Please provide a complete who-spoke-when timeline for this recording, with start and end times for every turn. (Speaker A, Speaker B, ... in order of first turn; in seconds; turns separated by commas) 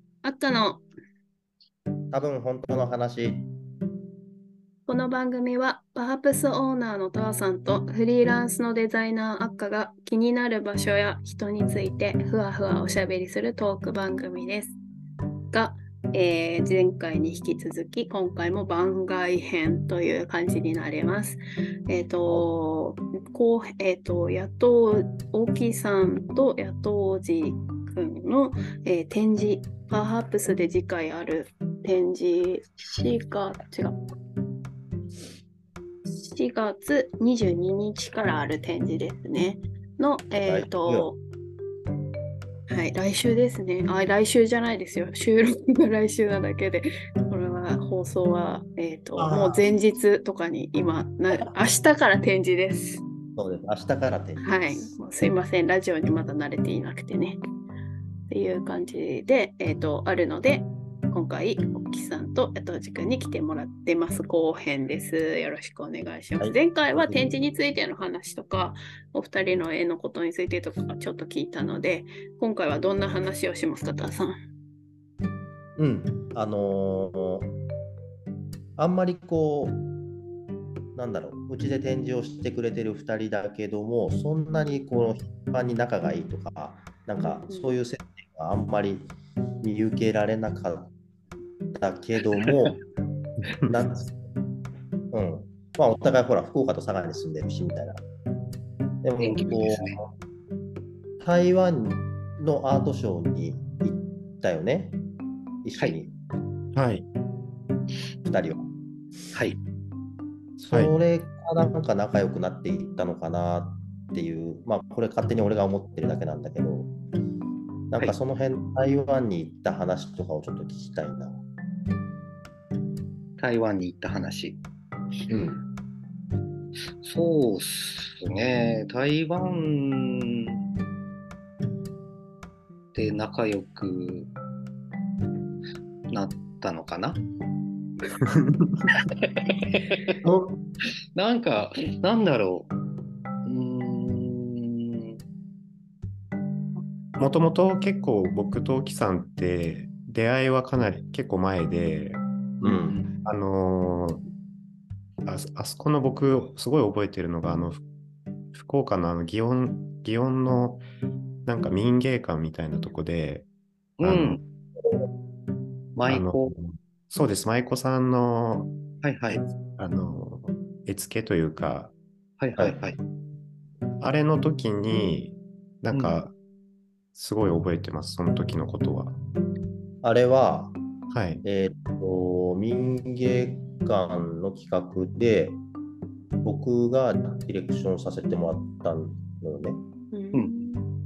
Speaker A: 0.2-0.8, Speaker B: 2.1-3.5, Speaker A: 4.9-14.8, Speaker A: 15.5-34.0, Speaker A: 36.1-41.2, Speaker B: 40.4-41.1, Speaker A: 42.7-53.0, Speaker B: 49.2-49.7, Speaker B: 53.4-55.0, Speaker A: 54.4-57.4, Speaker A: 58.3-74.4, Speaker B: 66.4-67.3, Speaker B: 75.8-77.5, Speaker B: 78.8-79.8, Speaker B: 81.0-90.9, Speaker A: 87.2-87.7, Speaker B: 91.8-92.8, Speaker C: 93.4-93.8, Speaker B: 93.6-94.1, Speaker B: 95.1-98.0, Speaker B: 99.0-100.1, Speaker D: 99.2-100.0, Speaker B: 101.2-105.0, Speaker B: 105.6-106.1, Speaker C: 106.7-107.1, Speaker B: 108.2-108.7, Speaker C: 110.6-110.9, Speaker B: 110.7-116.9, Speaker B: 117.9-121.4, Speaker D: 123.4-124.6, Speaker B: 125.3-125.6, Speaker D: 127.0-130.6, Speaker D: 132.9-134.3, Speaker D: 136.1-137.2, Speaker C: 138.2-138.9, Speaker D: 138.9-140.2, Speaker C: 140.2-140.6, Speaker D: 141.2-142.7, Speaker D: 143.5-145.2, Speaker C: 147.2-152.2, Speaker B: 152.6-153.0, Speaker D: 152.6-153.1, Speaker C: 153.2-154.2, Speaker C: 155.2-157.8, Speaker C: 158.5-160.8, Speaker C: 161.5-163.5, Speaker D: 164.0-164.4, Speaker C: 164.0-164.4, Speaker D: 166.0-166.5, Speaker C: 166.1-168.7, Speaker D: 169.0-169.4, Speaker C: 169.8-171.9, Speaker D: 172.4-173.0, Speaker C: 174.0-176.3, Speaker D: 175.9-176.2, Speaker C: 177.2-179.2, Speaker B: 180.0-180.8, Speaker C: 181.1-181.4, Speaker B: 181.4-185.6, Speaker B: 186.4-189.8, Speaker A: 190.1-190.9